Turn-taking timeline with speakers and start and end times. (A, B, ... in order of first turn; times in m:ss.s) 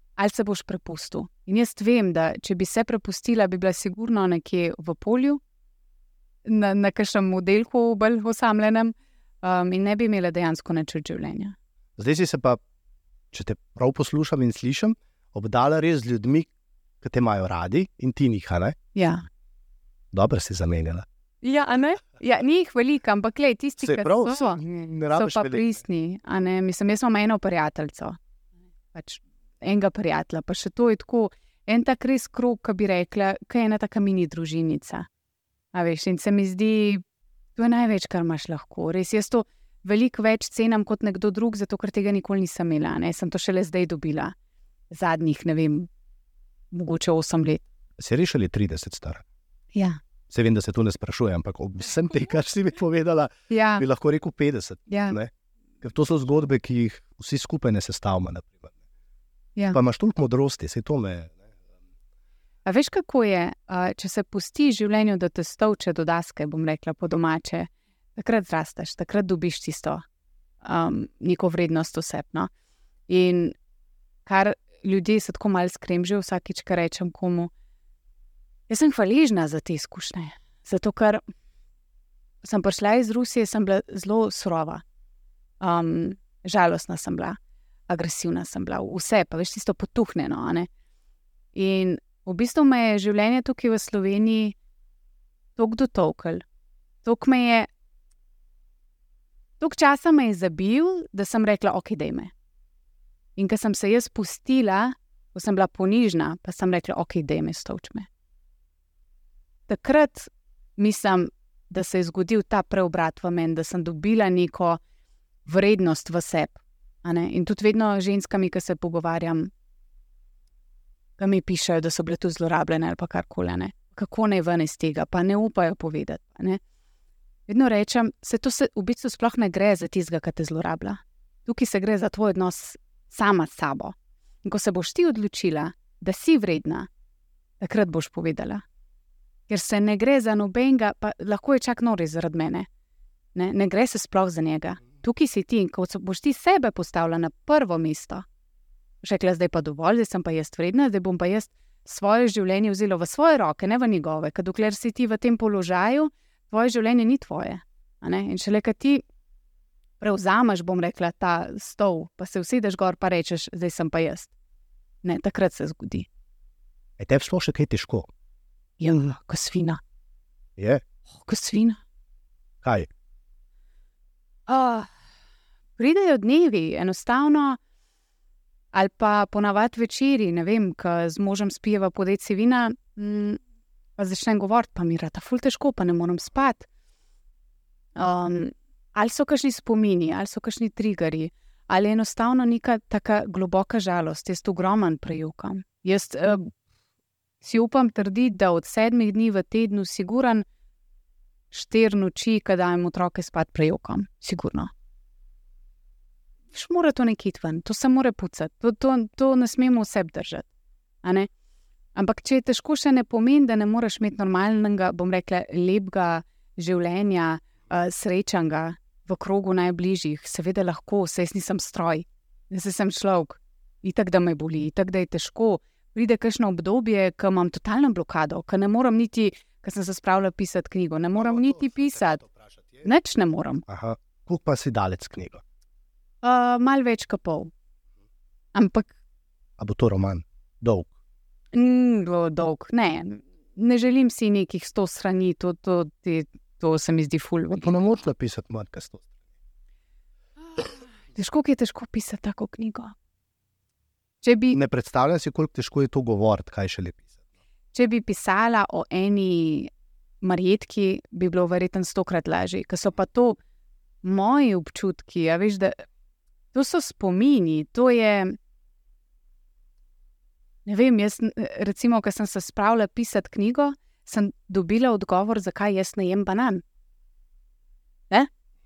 0:00.2-0:05.4 A
0:06.4-0:11.6 A
0:12.0-0:12.6 B
0:13.3-0:16.5 B
0:17.0-0:18.8 B
0:19.0-0:19.2 A
0:20.1-0:21.0 B
0:21.4-0:28.2 A
0:23.8-0:25.6 B
0:28.9-0:35.1 A
0:35.7-0:37.0 A
0:37.6-0:44.4 A
0:44.9-0:45.9 A
0:46.7-0:47.7 A
0:48.0-0:49.2 B
0:49.7-0:50.0 A
0:50.3-0:58.7 B
0:53.5-0:53.8 A
0:54.9-0:55.2 A
0:59.7-1:01.5 B
1:02.6-1:10.0 A
1:10.6-1:12.5 A
1:13.1-1:13.6 A
1:14.3-1:17.5 A
1:18.7-1:21.2 A
1:22.4-1:24.8 A
1:25.6-1:27.4 A
1:27.9-1:30.7 A
1:31.5-1:34.6 A
1:35.6-1:36.4 A
1:37.0-1:37.7 A
1:39.6-1:42.3 A
1:43.4-1:48.1 A
1:49.7-1:54.8 A
1:55.5-1:59.5 A
2:01.2-2:06.6 A
2:07.5-2:16.9 A
2:17.6-2:18.6 A
2:19.5-2:22.7 A
2:23.4-2:28.2 A
2:29.0-2:39.0 A
2:40.0-2:44.3 A
2:45.0-2:46.1 A
2:47.0-2:48.1 B
2:48.8-2:49.8 A
2:50.6-2:50.8 B
2:51.1-2:51.8 A
2:52.6-2:52.9 B
2:54.5-2:54.9 A
2:55.8-2:57.6 A
2:58.7-3:03.4 A
3:04.0-3:06.7 A
3:08.0-3:16.5 A
3:17.4-3:20.4 A
3:21.5-3:24.7 A
3:26.5-3:30.5 A
3:31.0-3:31.3 A
3:32.0-3:52.2 A
3:51.2-3:52.9 B
3:52.8-3:53.6 A
3:53.7-3:55.4 B
3:56.2-3:57.5 A
3:58.6-3:58.9 A
3:59.6-4:00.9 B
4:01.5-4:07.7 A
4:07.6-4:09.1 B
4:10.5-4:12.9 A
4:14.2-4:14.6 A
4:14.5-4:17.1 B
4:17.7-4:19.7 A
4:20.2-4:23.4 A
4:24.0-4:25.8 A
4:26.5-4:28.4 A
4:30.7-4:36.6 A